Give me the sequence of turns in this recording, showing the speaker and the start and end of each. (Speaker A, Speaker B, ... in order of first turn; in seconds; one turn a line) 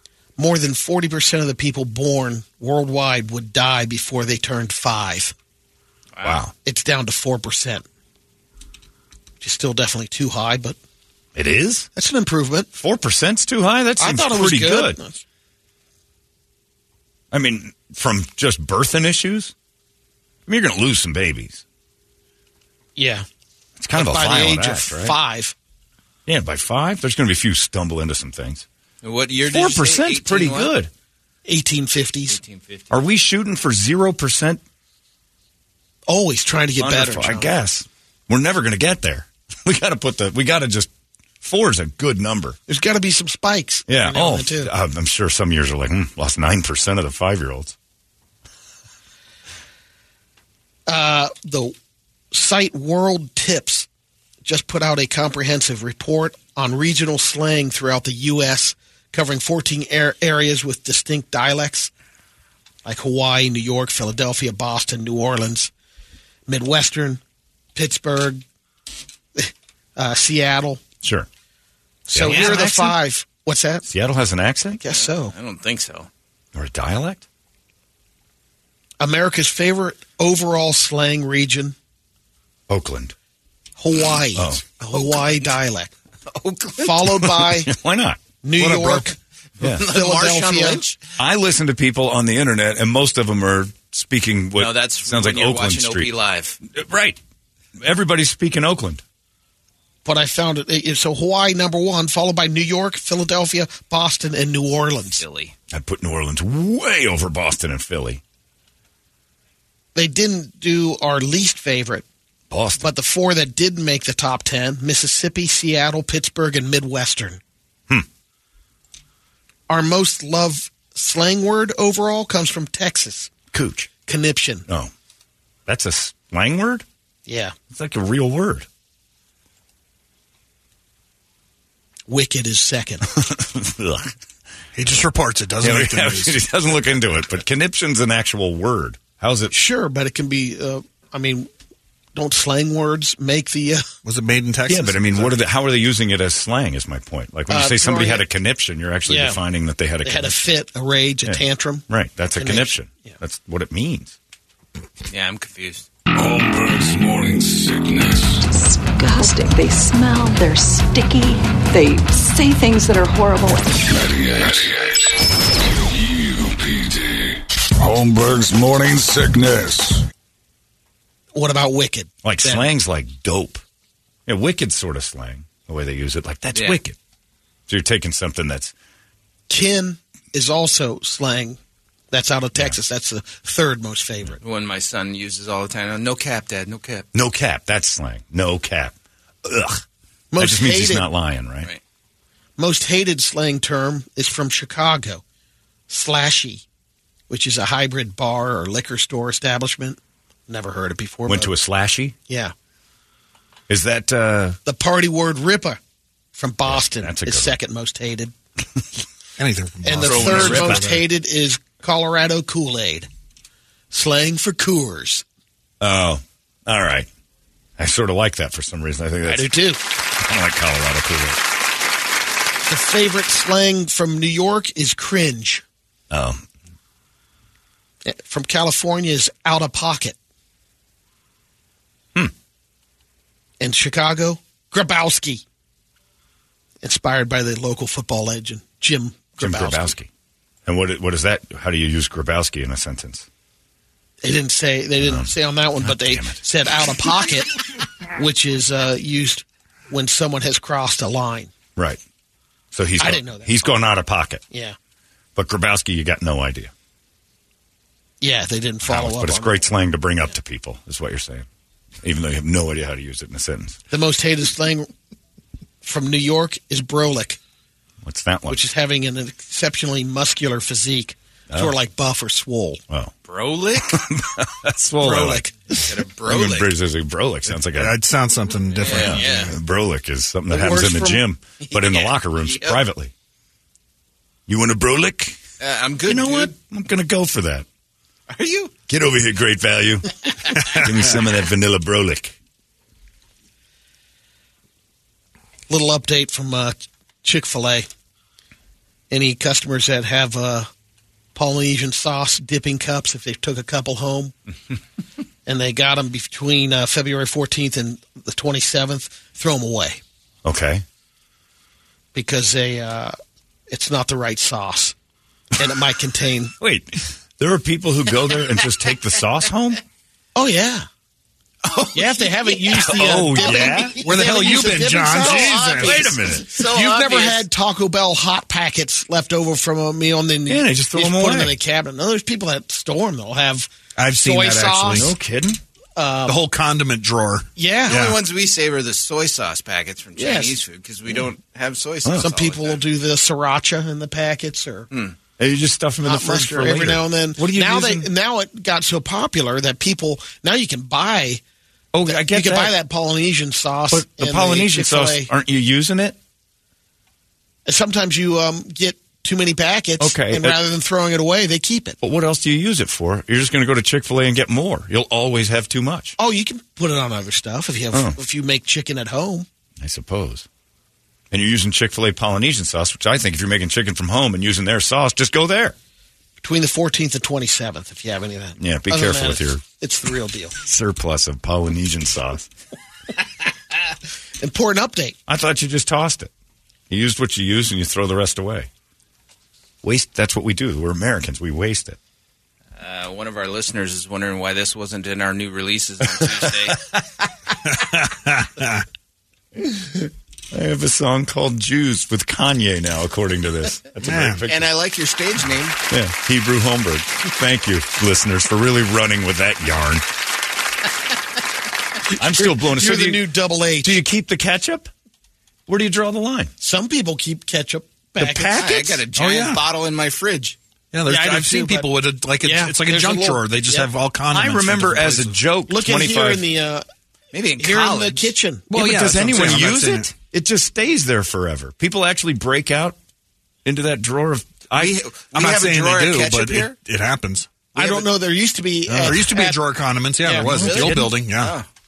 Speaker A: 0.4-5.3
Speaker B: 6.2-6.5
Speaker A: 6.6-7.8
Speaker A: 9.4-10.8
Speaker B: 11.3-11.9
Speaker A: 11.9-12.7
Speaker B: 12.7-15.0
Speaker A: 14.0-15.2
Speaker B: 17.3-19.5
Speaker B: 20.5-21.6
Speaker A: 22.9-23.2
Speaker B: 23.8-25.1
Speaker A: 23.9-25.5
Speaker B: 26.2-28.6
Speaker C: 29.0-30.7
Speaker B: 29.5-30.9
Speaker A: 31.4-32.4
Speaker C: 32.3-32.9
Speaker B: 32.9-34.6
Speaker A: 36.1-37.5
Speaker B: 36.8-40.9
Speaker B: 41.4-42.6
Speaker A: 42.7-44.7
Speaker B: 43.9-47.7
Speaker A: 50.9-51.7
Speaker A: 52.3-53.9
Speaker A: 54.4-61.9
Speaker A: 62.8-65.7
Speaker A: 66.5-67.2
Speaker A: 67.7-68.4
Speaker A: 69.3-70.8
Speaker B: 71.0-71.3
Speaker A: 72.1-73.9
Speaker B: 72.1-73.0
Speaker B: 73.9-74.8
Speaker A: 74.8-75.3
Speaker C: 74.9-76.1
Speaker B: 76.5-77.2
Speaker A: 79.0-81.7
Speaker B: 82.7-83.1
Speaker A: 83.8-85.9
Speaker B: 84.3-84.6
Speaker C: 84.9-85.4
Speaker C: 86.2-87.1
Speaker A: 86.8-87.7
Speaker B: 87.4-88.2
Speaker A: 88.4-89.2
Speaker D: 88.6-89.1
Speaker C: 89.6-91.0
Speaker A: 89.8-90.8
Speaker B: 91.2-96.1
Speaker C: 94.5-96.6
Speaker B: 96.7-97.2
Speaker B: 97.8-99.0
Speaker A: 100.0-105.2
Speaker C: 105.2-105.5
Speaker B: 105.7-108.2
Speaker A: 109.9-112.0
Speaker B: 112.5-112.9
Speaker A: 112.8-117.4
Speaker A: 119.7-123.3
Speaker B: 123.5-123.9
Speaker A: 124.0-124.7
Speaker B: 125.7-126.8
Speaker A: 127.3-127.5
Speaker B: 127.7-128.7
Speaker A: 132.1-133.0
Speaker B: 133.2-134.1
Speaker D: 134.7-136.4
Speaker B: 135.6-139.5
Speaker A: 139.5-141.5
Speaker A: 142.1-143.8
Speaker D: 144.0-145.4
Speaker B: 144.7-150.4
Speaker A: 147.5-148.2
Speaker A: 149.1-149.4
Speaker A: 150.0-153.2
Speaker B: 151.2-154.2
Speaker C: 155.1-155.9
Speaker E: 156.1-158.4
Speaker F: 158.5-163.8
Speaker E: 163.8-165.1
Speaker E: 165.7-170.0
Speaker A: 171.3-172.7
Speaker B: 172.2-173.6
Speaker B: 174.3-176.9
Speaker C: 176.5-176.8
Speaker B: 177.7-178.7
Speaker A: 179.5-181.6
Speaker A: 182.1-184.4
Speaker C: 184.4-187.1
Speaker B: 187.1-188.9
Speaker B: 189.4-189.8
Speaker A: 190.3-191.1
Speaker B: 190.4-191.7
Speaker A: 192.6-195.2
Speaker A: 195.9-196.6
Speaker A: 197.3-201.5
Speaker B: 201.3-202.1
Speaker A: 202.3-202.5
Speaker B: 203.7-204.6
Speaker A: 204.7-205.8
Speaker A: 206.3-208.3
Speaker B: 206.7-207.5
Speaker D: 209.4-211.0
Speaker A: 209.8-213.1
Speaker B: 210.0-210.8
Speaker A: 213.9-215.2
Speaker B: 215.8-217.1
Speaker B: 217.8-219.6
Speaker A: 219.2-219.8
Speaker B: 220.2-221.4
Speaker A: 222.7-225.6
Speaker B: 226.1-226.4
Speaker A: 228.0-230.2
Speaker A: 233.6-235.4
Speaker A: 236.8-239.9
Speaker B: 239.4-240.1
Speaker B: 240.7-243.2
Speaker A: 244.2-251.5
Speaker B: 245.0-246.4
Speaker B: 252.7-254.4
Speaker A: 253.0-253.8
Speaker A: 254.5-254.8
Speaker B: 255.3-256.7
Speaker A: 258.2-259.6
Speaker B: 258.8-261.4
Speaker B: 262.0-263.8
Speaker A: 263.9-264.9
Speaker A: 265.8-267.4
Speaker B: 268.0-268.6
Speaker A: 268.5-272.8
Speaker C: 273.2-274.0
Speaker B: 273.9-278.0
Speaker A: 275.0-275.5
Speaker C: 275.7-276.7
Speaker D: 277.5-279.5
Speaker C: 278.7-279.6
Speaker B: 278.8-283.1
Speaker A: 280.5-281.2
Speaker C: 281.6-282.8
Speaker B: 284.5-285.4
Speaker C: 285.6-286.5
Speaker B: 286.1-287.6
Speaker C: 288.3-288.7
Speaker B: 288.9-292.3
Speaker A: 295.7-297.9
Speaker A: 299.1-300.7
Speaker A: 301.3-304.3
Speaker A: 305.4-310.0
Speaker B: 310.4-310.8
Speaker A: 312.1-313.1
Speaker A: 313.7-314.9
Speaker A: 315.6-316.5
Speaker B: 316.6-319.8
Speaker A: 320.3-320.9
Speaker C: 321.6-324.0
Speaker A: 321.9-335.1
Speaker B: 322.8-324.0
Speaker D: 323.9-326.1
Speaker C: 325.1-327.4
Speaker B: 325.8-326.5
Speaker B: 330.5-331.6
Speaker D: 334.0-335.1
Speaker B: 334.9-335.6
Speaker A: 335.9-336.4
Speaker D: 336.3-338.2
Speaker A: 337.6-338.0
Speaker C: 337.9-342.8
Speaker A: 340.2-340.6
Speaker A: 342.2-344.9
Speaker C: 344.9-345.1
Speaker B: 345.4-348.1
Speaker A: 346.0-351.4
Speaker B: 351.9-352.7
Speaker A: 352.1-355.3
Speaker B: 353.9-356.1
Speaker A: 357.6-362.0
Speaker B: 360.0-360.6
Speaker B: 362.0-366.1
Speaker A: 366.2-369.5
Speaker B: 369.8-370.4
Speaker B: 371.3-375.7
Speaker A: 376.4-380.6
Speaker B: 378.6-379.6
Speaker B: 380.6-382.5
Speaker A: 384.4-385.1
Speaker B: 385.3-386.3
Speaker B: 386.9-388.7
Speaker B: 389.8-392.0
Speaker C: 392.8-396.8
Speaker D: 397.6-398.8
Speaker B: 399.6-404.7
Speaker D: 404.0-404.4
Speaker C: 404.4-405.8
Speaker B: 405.9-410.0
Speaker A: 412.1-414.0
Speaker B: 412.2-413.2
Speaker B: 413.8-414.9
Speaker B: 415.7-416.5
Speaker A: 416.6-418.7
Speaker B: 418.3-419.0
Speaker C: 418.4-420.6
Speaker D: 419.1-419.6
Speaker D: 420.9-425.4
Speaker A: 421.1-421.9
Speaker A: 422.4-423.9
Speaker B: 424.3-426.4
Speaker A: 425.7-426.9
Speaker C: 427.3-428.3
Speaker A: 427.6-428.7
Speaker D: 428.7-430.1
Speaker B: 428.7-432.9
Speaker B: 433.6-435.0
Speaker C: 434.7-436.7
Speaker D: 435.3-437.5
Speaker C: 437.7-438.1
Speaker A: 437.7-439.6
Speaker D: 438.9-441.6
Speaker A: 440.2-440.5
Speaker B: 440.4-441.1
Speaker C: 440.5-441.7